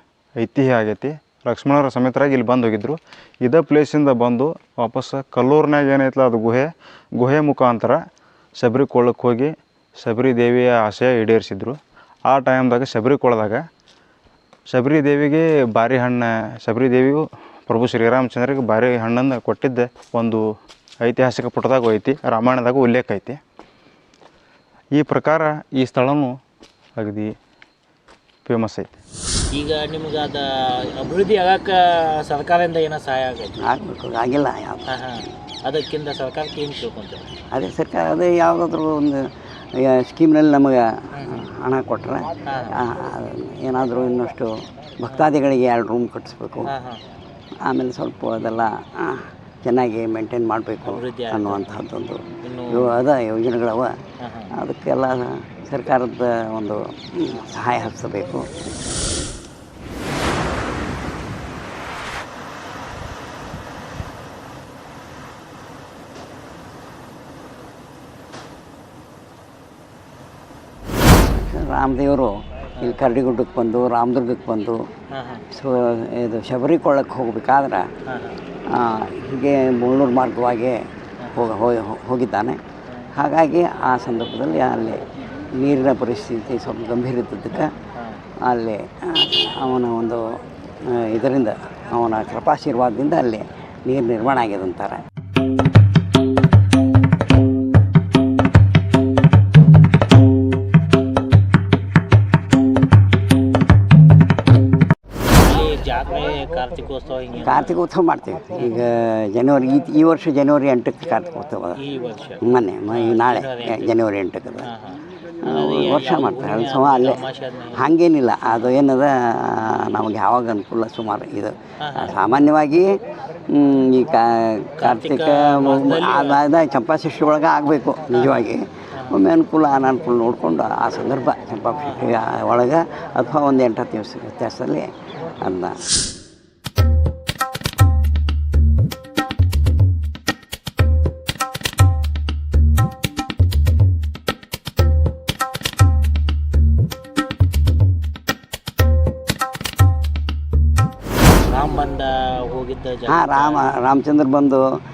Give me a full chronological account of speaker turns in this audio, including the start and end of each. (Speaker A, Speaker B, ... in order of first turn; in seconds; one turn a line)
Speaker A: 0.4-8.0
Speaker A: 8.6-13.6
Speaker A: 14.7-20.4
Speaker A: 21.0-23.4
Speaker A: 24.9-26.3
Speaker A: 27.0-27.3
Speaker A: 28.4-28.9
Speaker B: 29.5-33.6
Speaker C: 33.6-34.8
Speaker B: 34.9-37.3
Speaker C: 37.5-39.2
Speaker C: 39.8-46.7
Speaker B: 41.1-41.4
Speaker B: 42.5-42.8
Speaker B: 45.1-45.4
Speaker B: 46.7-47.0
Speaker C: 47.6-53.9
Speaker B: 50.8-51.6
Speaker B: 52.4-53.0
Speaker B: 54.2-54.5
Speaker C: 54.6-58.5
Speaker C: 71.3-74.8
Speaker B: 75.1-75.4
Speaker C: 75.5-77.8
Speaker B: 78.1-78.4
Speaker C: 78.7-80.8
Speaker B: 81.2-81.5
Speaker C: 81.3-82.6
Speaker C: 83.1-85.0
Speaker C: 85.5-87.7
Speaker C: 88.5-90.2
Speaker C: 90.8-95.0
Speaker B: 105.4-107.8
Speaker C: 107.4-111.8
Speaker B: 111.8-114.0
Speaker C: 112.4-114.7
Speaker B: 114.6-117.9
Speaker C: 115.5-117.2
Speaker C: 117.7-122.9
Speaker B: 118.5-118.7
Speaker B: 121.8-122.2
Speaker C: 123.5-135.8
Speaker B: 124.8-126.4
Speaker B: 128.1-129.2
Speaker B: 131.8-132.3
Speaker B: 151.4-153.7
Speaker C: 151.4-151.9
Speaker C: 153.1-154.6